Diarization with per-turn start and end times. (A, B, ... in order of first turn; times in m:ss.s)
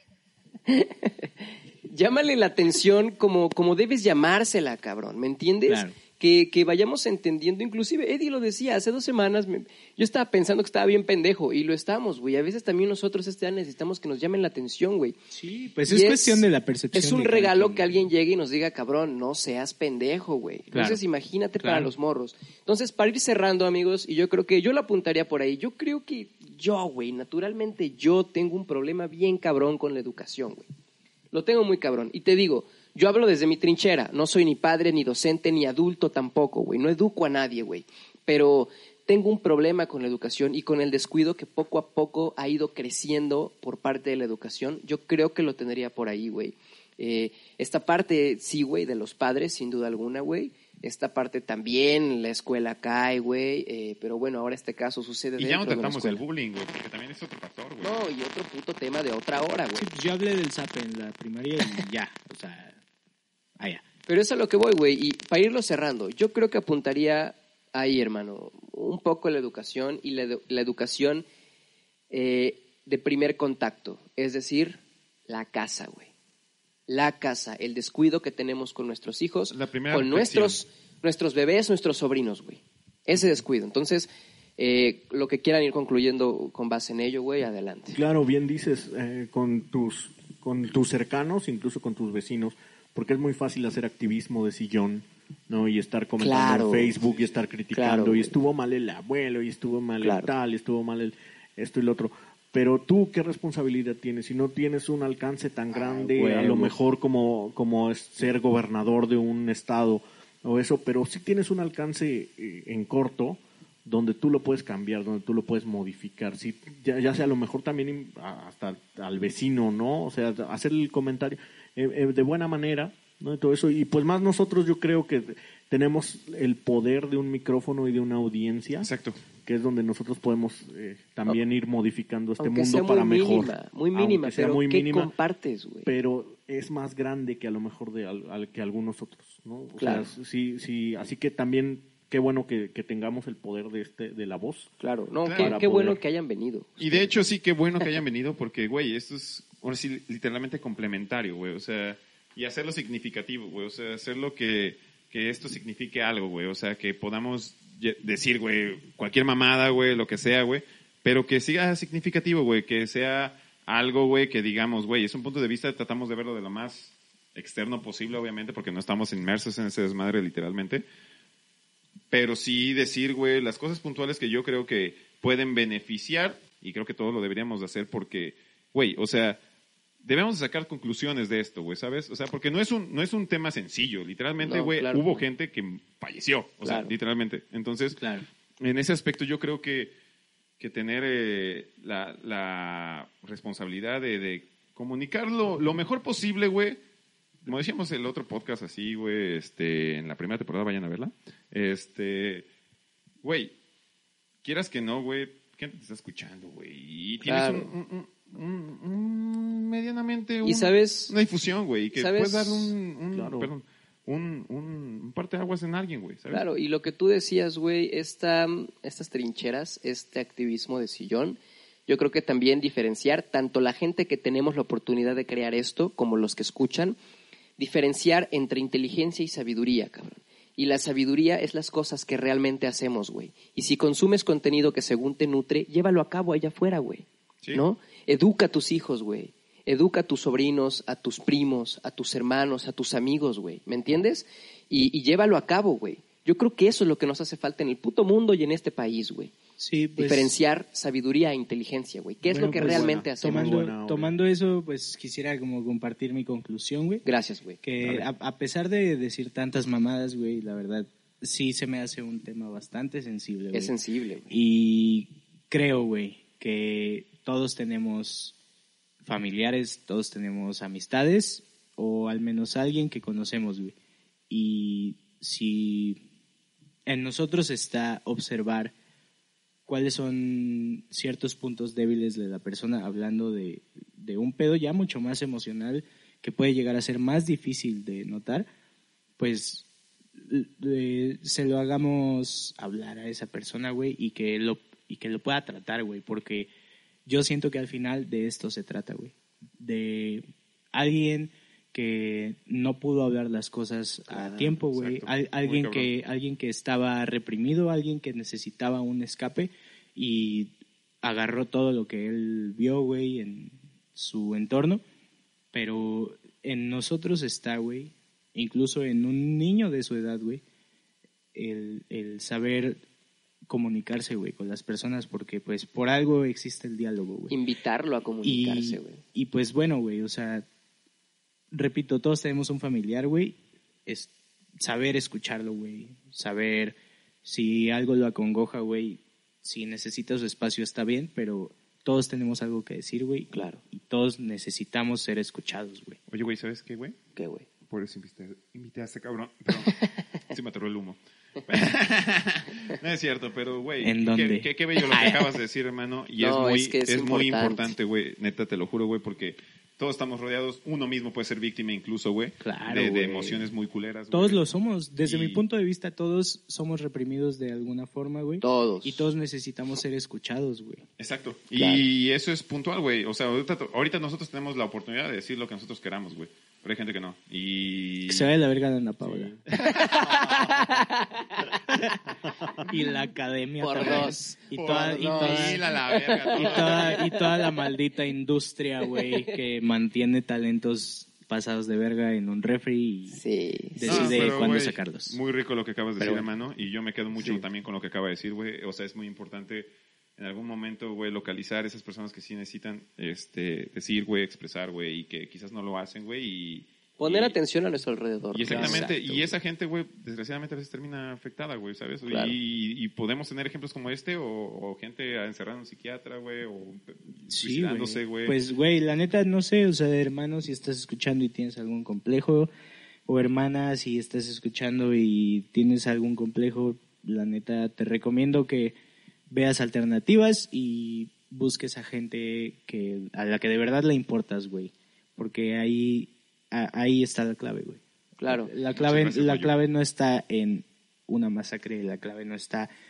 0:00.6-0:15.2 A
0:05.7-0:06.0 B
0:15.3-0:18.0 B
0:15.8-0:30.6 A
0:20.7-0:21.0 B
0:21.6-0:21.9 B
0:31.3-0:56.2 A
0:55.4-0:58.0 C
0:57.8-0:59.9 A
0:59.8-1:02.8 B
1:03.6-1:03.8 B
1:04.1-1:11.2 A
1:12.1-1:16.1 A
1:16.9-1:28.0 A
1:19.5-1:20.6 C
1:27.9-2:08.9 D
1:36.2-1:37.0 A
1:37.7-1:38.3 A
1:40.0-1:40.3 A
1:45.7-1:46.7 A
2:08.8-2:09.2 C
2:09.4-2:15.1 D
2:12.4-2:15.9 A
2:15.8-2:24.7 D
2:19.8-2:20.1 A
2:24.8-2:27.2 A
2:25.2-2:25.6 C
2:25.4-2:26.0 D
2:26.8-2:50.8 C
2:52.1-2:59.4 C
3:00.0-3:08.0 C
3:04.4-3:05.2 A
3:06.6-3:06.9 A
3:08.0-3:08.2 B
3:08.6-3:09.9 C
3:10.6-3:16.8 C
3:17.4-3:22.5 C
3:23.2-3:23.5 C
3:24.4-3:36.4 C
3:27.2-3:27.7 A
3:30.4-3:31.1 A
3:31.9-3:32.7 A
3:33.1-3:33.5 D
3:36.3-3:47.0 A
3:47.6-4:09.3 A
4:09.6-4:10.3 B
4:10.0-4:13.6 A
4:12.3-4:14.1 D
4:12.4-4:17.0 B
4:17.0-4:17.6 A
4:17.6-4:23.7 B
4:23.5-4:24.4 A
4:24.3-4:28.3 B
4:29.0-4:33.7 B
4:34.3-4:36.0 B
4:36.8-4:38.7 B
4:39.7-4:48.5 B
4:49.2-4:49.6 B
4:50.2-4:56.5 B
4:57.0-5:10.5 B
5:04.1-5:04.5 A
5:04.5-5:05.9 C
5:11.0-5:14.8 B
5:15.5-5:20.4 B
5:21.3-5:22.8 B
5:23.5-5:27.4 B
5:27.3-5:29.0 A
5:28.2-5:30.4 B
5:31.5-5:46.0 B
5:43.3-5:43.6 A
5:46.1-5:47.0 C
5:47.2-5:47.4 A
5:47.6-5:49.8 C
5:49.7-5:50.0 A
5:50.3-6:04.5 C
5:53.8-5:55.3 B
5:56.2-5:57.7 A
6:02.4-6:03.5 B
6:04.1-6:10.8 B
6:05.0-6:05.4 C
6:08.4-6:09.1 A
6:11.0-6:18.3 C
6:18.1-6:19.4 B
6:19.0-6:19.4 D
6:19.5-6:20.4 C
6:19.6-6:21.9 A
6:22.2-6:22.7 D
6:22.6-6:25.7 B
6:23.6-6:27.2 A
6:24.5-6:27.0 C
6:26.3-6:33.2 B
6:28.8-6:29.4 A
6:33.1-6:34.2 A
6:33.7-6:35.2 B
6:33.8-6:47.4 C
6:36.0-6:36.3 B
6:47.0-6:49.3 A
6:48.3-6:58.4 C
6:48.5-6:49.0 B
6:52.1-6:52.3 A
6:57.3-7:02.5 B
7:03.1-7:08.7 B
7:09.3-7:22.7 B
7:18.2-7:18.5 A
7:18.7-7:19.5 C